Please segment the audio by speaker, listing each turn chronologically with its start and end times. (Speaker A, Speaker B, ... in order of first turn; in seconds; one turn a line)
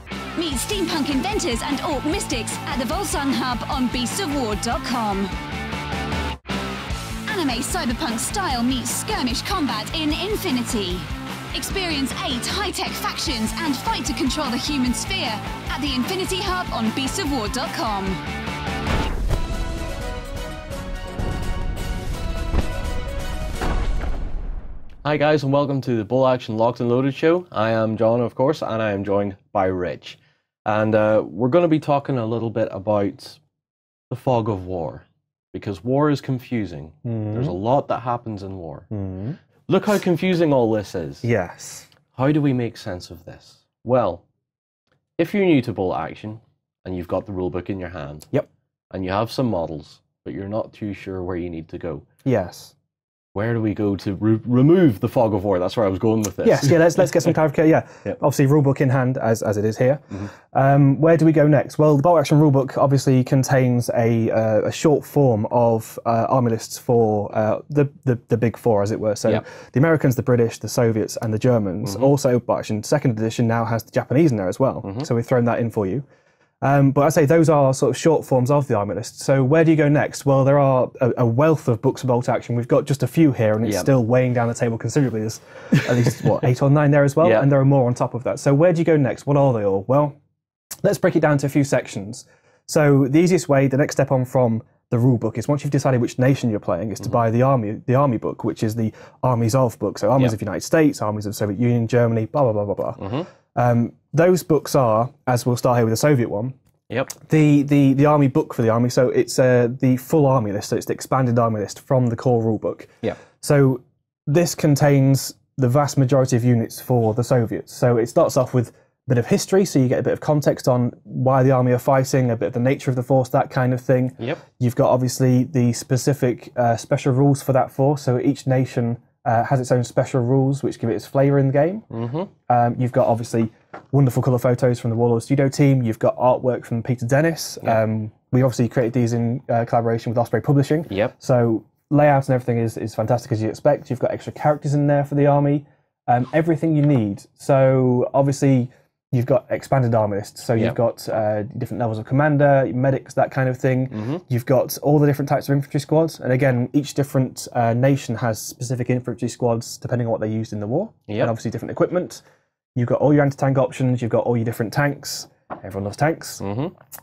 Speaker A: 0.3-5.3
Speaker A: 7.3-18.2
Speaker B: 25.0-33.4
Speaker B: 34.1-38.9
Speaker C: 37.0-37.5
Speaker C: 38.9-39.4
Speaker B: 39.7-41.3
Speaker C: 41.2-41.9
Speaker B: 42.1-44.2
Speaker B: 45.2-48.3
Speaker B: 48.9-52.0
Speaker C: 52.2-52.7
Speaker B: 53.3-57.3
Speaker C: 56.4-76.0
Speaker B: 71.8-72.1
Speaker B: 74.8-75.1
Speaker C: 76.6-90.2
Speaker B: 83.6-83.9
Speaker B: 85.8-86.5
Speaker B: 87.2-87.5
Speaker C: 90.8-106.5
Speaker B: 103.0-103.3
Speaker B: 106.9-107.2
Speaker C: 107.3-131.9
Speaker B: 131.9-132.3
Speaker C: 132.5-162.2
Speaker B: 140.9-141.1
Speaker B: 153.9-154.2
Speaker B: 161.1-161.3
Speaker C: 162.7-166.4
Speaker B: 166.4-166.7